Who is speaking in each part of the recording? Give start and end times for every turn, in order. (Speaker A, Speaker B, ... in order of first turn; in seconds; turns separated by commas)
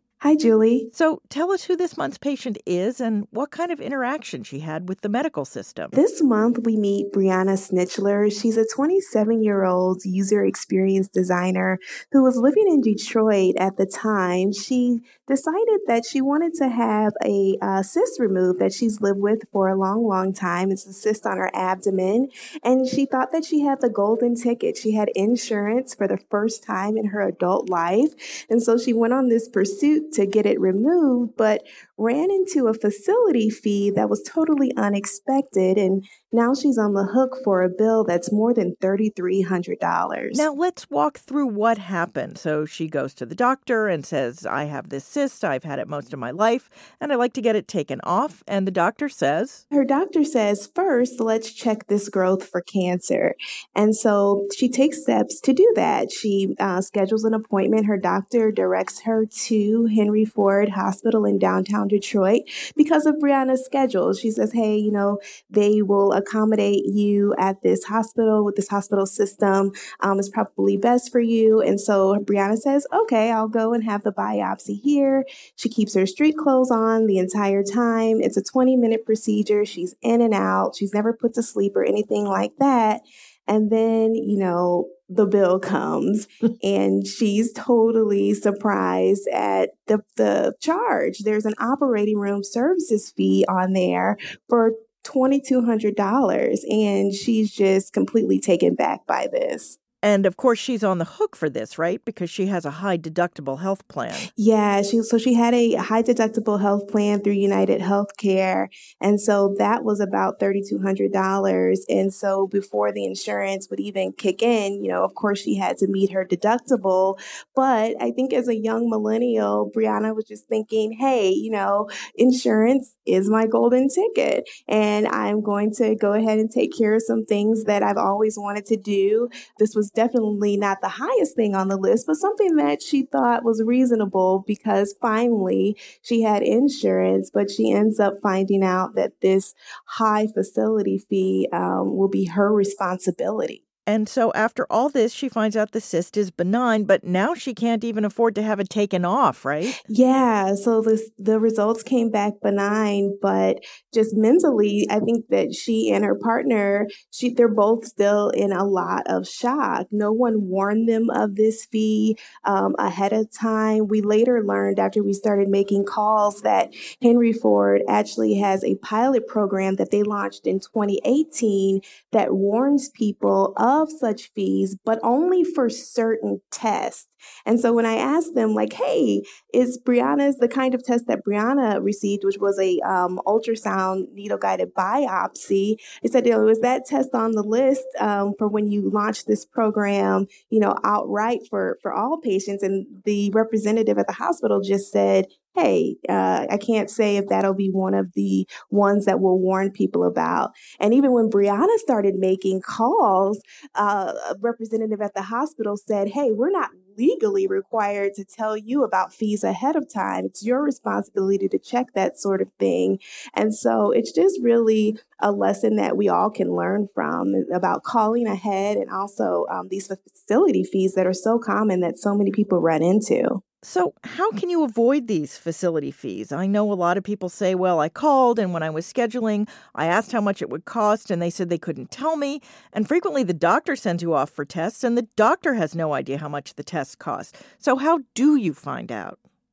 Speaker A: 0.2-0.9, Speaker B: 0.9-5.9, Speaker A: 5.9-40.4, Speaker B: 40.3-49.6, Speaker A: 49.7-99.8, Speaker B: 100.0-104.3, Speaker A: 104.3-143.6, Speaker B: 143.8-149.8, Speaker A: 149.8-223.4, Speaker B: 223.6-239.2